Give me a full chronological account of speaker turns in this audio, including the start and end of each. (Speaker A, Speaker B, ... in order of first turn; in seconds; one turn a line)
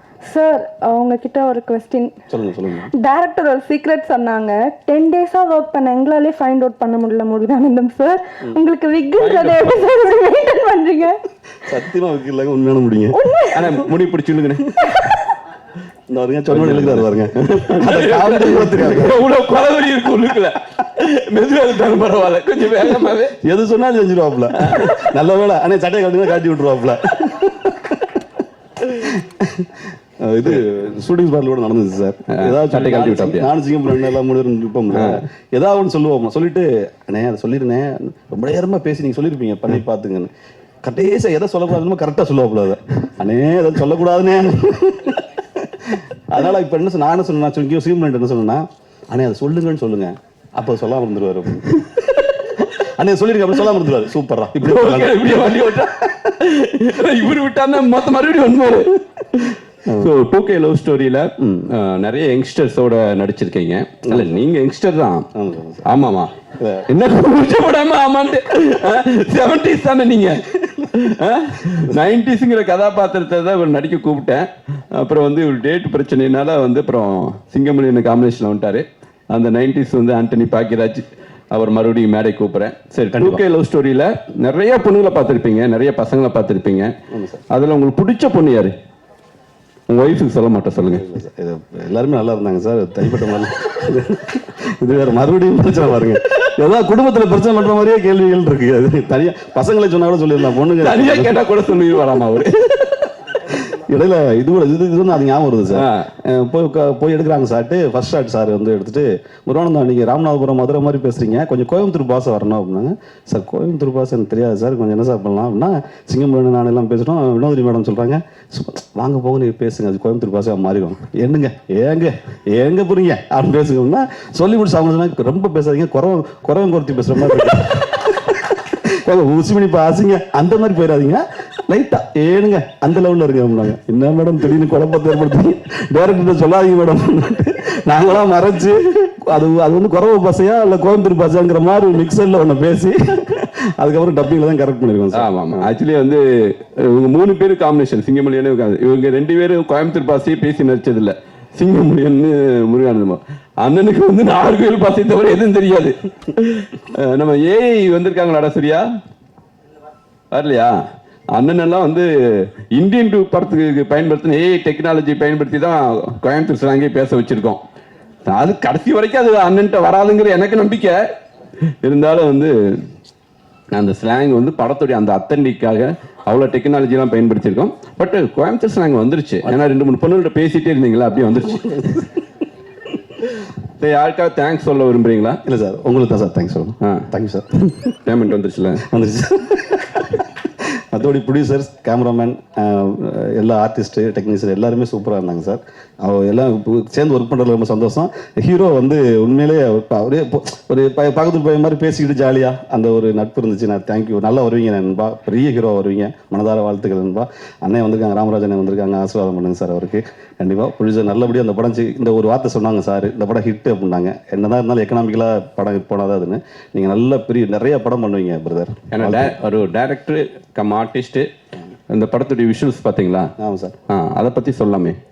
Speaker A: 0.3-2.1
Speaker B: 2.3-2.9
Speaker A: 2.9-11.2
Speaker C: 9.2-9.8
Speaker B: 11.7-13.2
Speaker A: 13.1-13.8
Speaker C: 13.5-14.9
Speaker B: 16.1-19.2
Speaker C: 16.5-23.4
Speaker B: 23.4-28.0
Speaker C: 24.6-25.1
Speaker B: 28.9-29.7
Speaker B: 30.2-40.3
Speaker C: 32.3-33.5
Speaker C: 34.9-35.2
Speaker B: 40.8-51.9
Speaker B: 52.6-55.7
Speaker C: 54.6-65.3
Speaker B: 61.4-61.7
Speaker B: 64.1-64.4
Speaker B: 65.3-65.9
Speaker C: 65.9-66.3
Speaker B: 66.6-66.8
Speaker C: 66.9-86.9
Speaker B: 83.2-83.4
Speaker B: 87.1-87.4
Speaker C: 87.5-88.7
Speaker C: 89.9-91.0
Speaker B: 90.8-101.4
Speaker C: 100.8-103.1
Speaker B: 103.5-145.7
Speaker C: 105.7-106.1
Speaker C: 145.1-158.9
Speaker C: 160.3-160.8
Speaker C: 161.3-167.6
Speaker C: 168.3-171.0
Speaker C: 171.8-172.8
Speaker C: 173.7-182.1
Speaker C: 183.8-185.4
Speaker B: 185.5-187.5
Speaker C: 186.8-187.1
Speaker C: 188.1-188.8
Speaker B: 188.9-190.2
Speaker B: 190.9-219.4
Speaker C: 218.9-221.3
Speaker C: 221.9-223.3
Speaker B: 223.4-223.8
Speaker C: 223.9-225.0